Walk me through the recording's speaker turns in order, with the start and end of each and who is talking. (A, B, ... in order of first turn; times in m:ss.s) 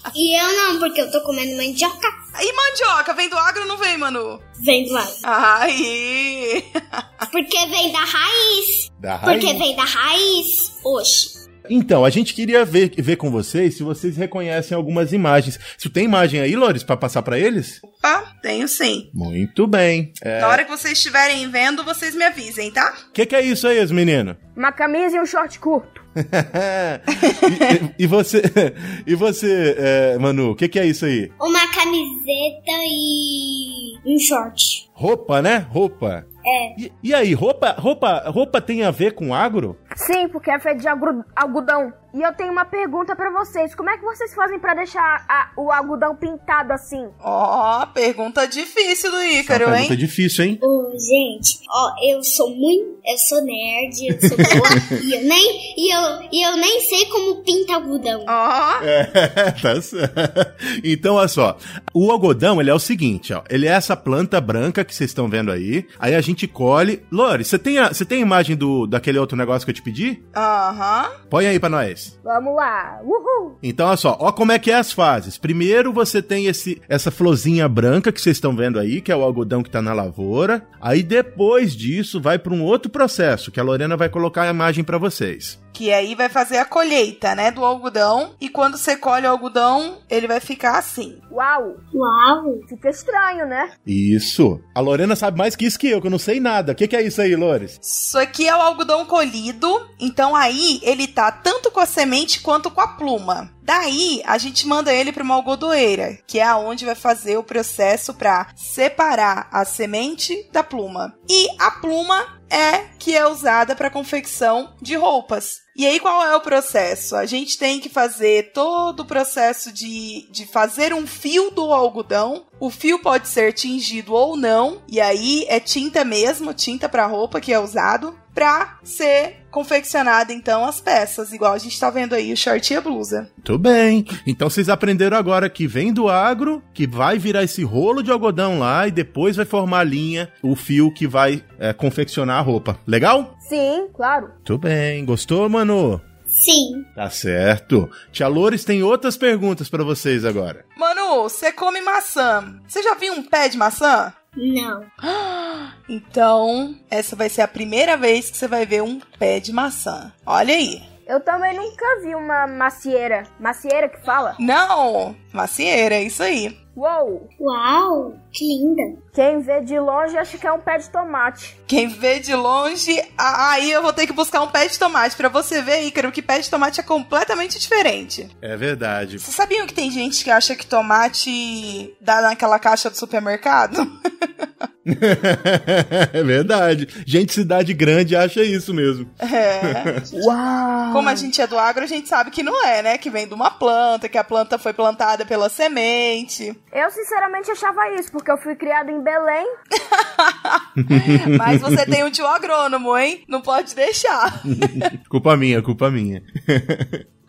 0:00.1-0:02.2 A
0:02.4-0:04.4 B
0:04.6-0:05.2 A
0:05.2-0:07.2 B
0:07.3-0:11.4 A
0:09.0-0:09.6 C
0:11.7-0:17.8 C
0:17.8-0:19.1 B
0:19.1-0:20.6 C
0:20.4-0:23.0 B
0:23.1-0:24.4 C
0:24.6-0:26.0 D
0:26.2-0:31.3 C
0:27.3-0:27.7 B
0:31.4-0:34.8 A
0:35.0-0:39.8 C
0:36.4-0:36.8 A
0:40.0-0:47.1 D
0:47.2-0:50.0 B
0:49.4-0:50.6 C
0:50.6-0:58.4 A
0:54.2-0:54.9 C
0:58.3-0:58.9 B
0:58.8-1:10.2 C
1:10.3-1:11.2 B
1:11.3-1:12.1 C
1:12.2-1:13.6 D
1:13.6-1:25.6 C
1:25.7-1:31.2 B
1:31.3-1:31.8 D
1:31.9-1:32.6 A
1:32.7-1:33.7 D
1:33.9-1:37.8 C
1:37.8-2:13.3 B
2:13.4-2:23.3 C
2:23.4-2:24.3 D
2:24.5-2:26.0 C
2:26.3-2:26.9 A
2:27.0-2:30.6 C
2:30.8-2:34.1 B
2:34.4-2:34.9 A
2:35.0-2:40.8 B
2:41.1-2:44.4 D
2:44.4-2:46.6 B
2:46.8-2:47.3 D
2:47.4-2:49.0 A
2:49.2-2:51.5 D
2:51.7-2:58.3 B
2:58.4-2:59.2 C
2:59.2-3:03.9 B
3:04.9-3:09.9 C
3:09.2-3:10.1 B
3:10.1-3:11.3 D
3:10.9-3:16.6 B
3:16.7-3:19.5 D
3:19.8-3:24.9 B
3:20.9-3:21.8 C
3:24.6-3:27.0 C